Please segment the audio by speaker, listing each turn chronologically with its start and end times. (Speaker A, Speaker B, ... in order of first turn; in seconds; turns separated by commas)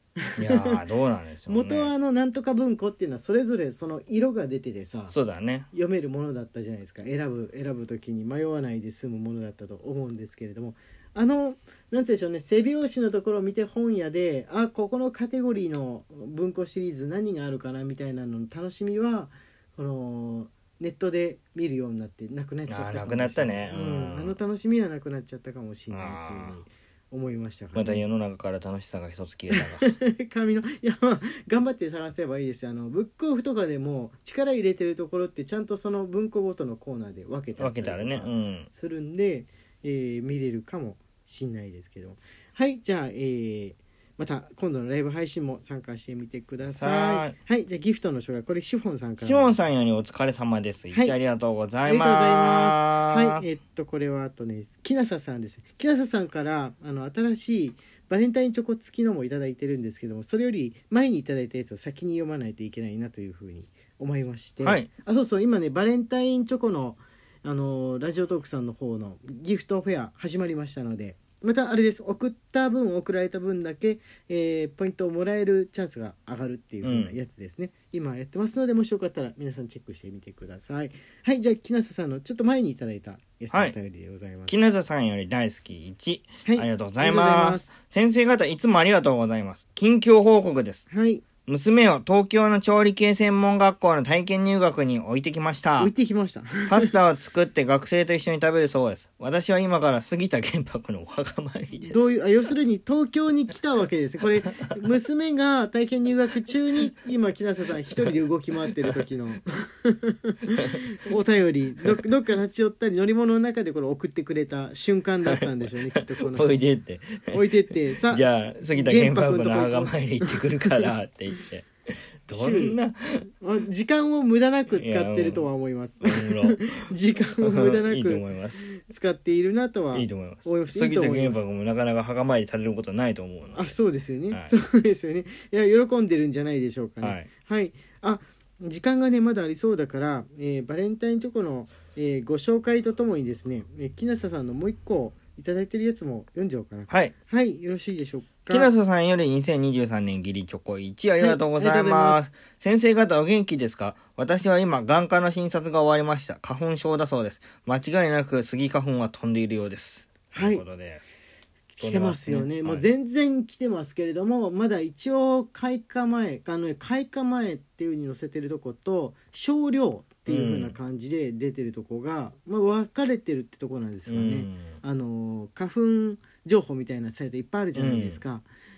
Speaker A: 0.3-0.8, Speaker B: 0.4-1.9, Speaker A: 1.5-5.2, Speaker B: 5.1-5.7, Speaker A: 5.7-28.0, Speaker B: 22.7-24.4, Speaker B: 25.9-26.6, Speaker B: 27.8-29.9, Speaker A: 29.5-49.5, Speaker B: 37.6-38.7, Speaker B: 46.8-47.4, Speaker B: 49.2-53.4, Speaker A: 51.9-84.6, Speaker B: 64.6-64.9, Speaker B: 76.8-77.1, Speaker B: 84.5-90.9, Speaker A: 86.4-87.7, Speaker A: 90.9-91.2, Speaker B: 91.5-95.9, Speaker A: 95.8-96.9, Speaker B: 96.7-102.1, Speaker A: 101.9-116.6, Speaker B: 115.9-121.7, Speaker A: 117.3-120.9, Speaker B: 122.3-123.3, Speaker A: 122.3-122.8, Speaker A: 123.4-131.4, Speaker B: 124.7-125.4, Speaker B: 126.0-126.9, Speaker B: 127.4-128.7, Speaker B: 129.9-133.8, Speaker A: 133.5-148.7, Speaker B: 137.0-137.3, Speaker B: 146.9-147.1, Speaker B: 148.5-161.0, Speaker A: 151.2-152.3, Speaker A: 160.3-160.7, Speaker A: 161.7-178.4, Speaker B: 161.8-162.8, Speaker B: 170.3-170.8, Speaker B: 174.1-174.8, Speaker B: 177.8-178.2